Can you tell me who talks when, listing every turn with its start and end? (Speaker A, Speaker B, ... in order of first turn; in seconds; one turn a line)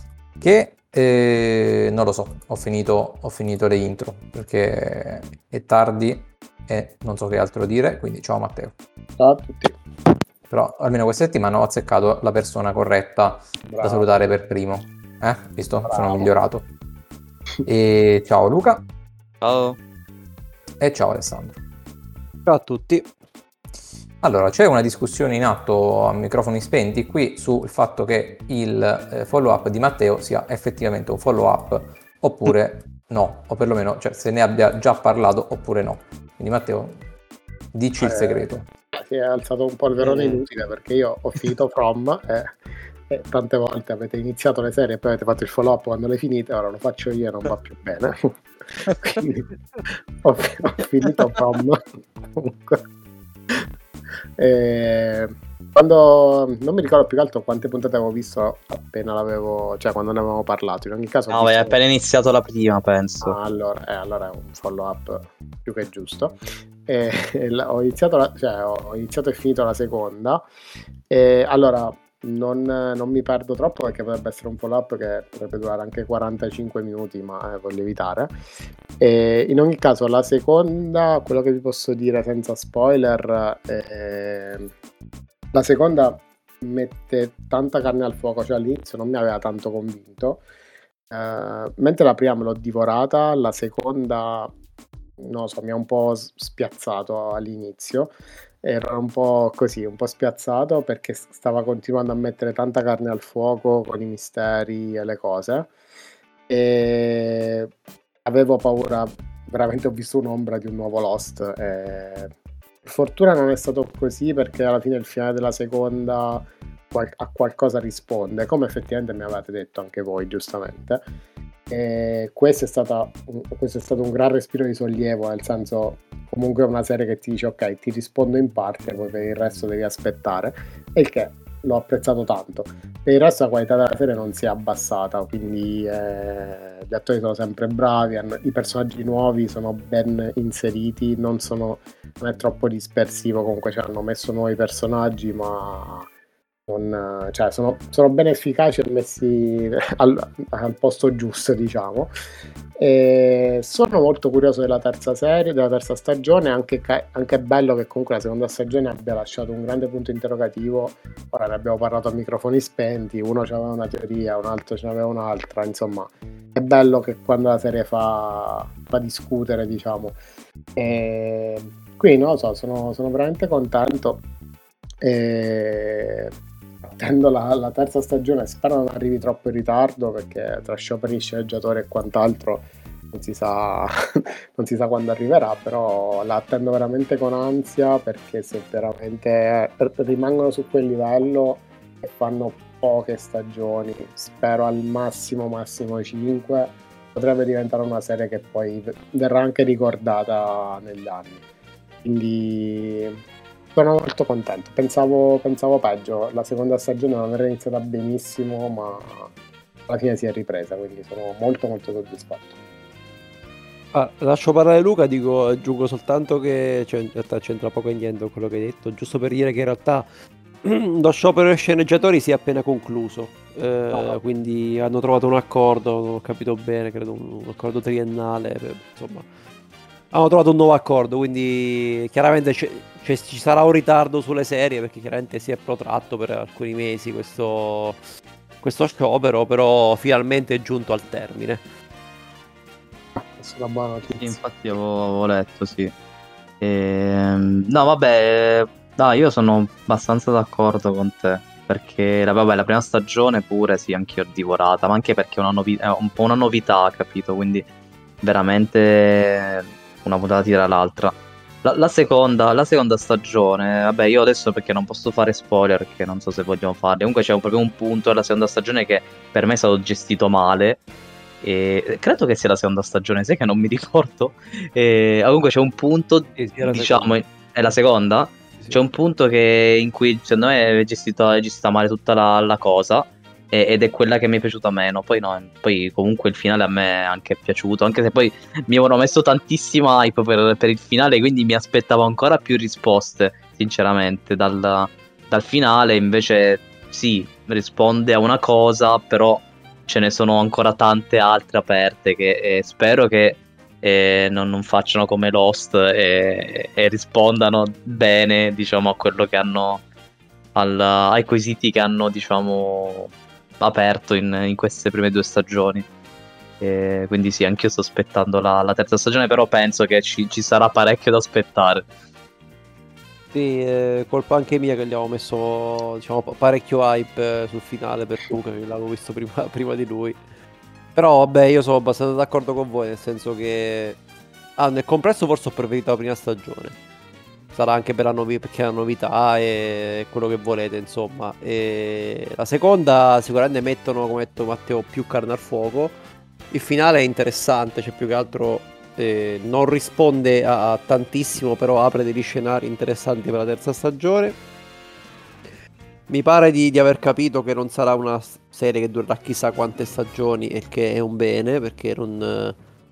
Speaker A: 0.4-8.7
Speaker B: 9.2-9.7
Speaker A: 10.5-16.7
Speaker B: 13.7-14.1
Speaker B: 15.9-16.3
Speaker A: 17.6-18.8
Speaker C: 19.4-19.8
Speaker A: 20.8-21.6
Speaker D: 22.4-23.1
Speaker A: 24.2-37.0
Speaker A: 37.7-38.6
Speaker B: 38.0-49.4
Speaker B: 50.2-52.8
Speaker B: 54.4-61.8
Speaker C: 61.3-63.4
Speaker B: 63.2-70.4
Speaker B: 71.1-78.3
Speaker B: 79.0-84.7
Speaker B: 85.5-90.4
Speaker B: 91.1-94.5
Speaker B: 95.2-105.7
Speaker B: 106.5-107.7
Speaker B: 108.2-112.3
Speaker B: 112.8-121.0
Speaker B: 121.7-146.1
Speaker B: 146.7-152.1
Speaker B: 152.8-170.2
Speaker B: 170.8-174.2
Speaker B: 175.0-176.3
Speaker B: 176.8-201.4
Speaker B: 202.0-203.2
Speaker B: 203.7-209.3
Speaker B: 209.9-212.6
Speaker D: 213.9-220.1
Speaker D: 220.6-229.2
Speaker D: 230.1-238.0
Speaker D: 238.6-241.6
Speaker B: 243.2-244.4
Speaker C: 244.2-245.9
Speaker C: 246.6-257.7
Speaker C: 258.2-270.8
Speaker C: 271.4-309.8
Speaker D: 276.4-277.1
Speaker C: 310.5-315.9
Speaker C: 316.6-321.9
Speaker D: 323.3-330.2
Speaker D: 330.9-334.0
Speaker D: 334.6-336.8
Speaker D: 337.5-345.9
Speaker D: 346.5-354.4
Speaker D: 356.1-362.6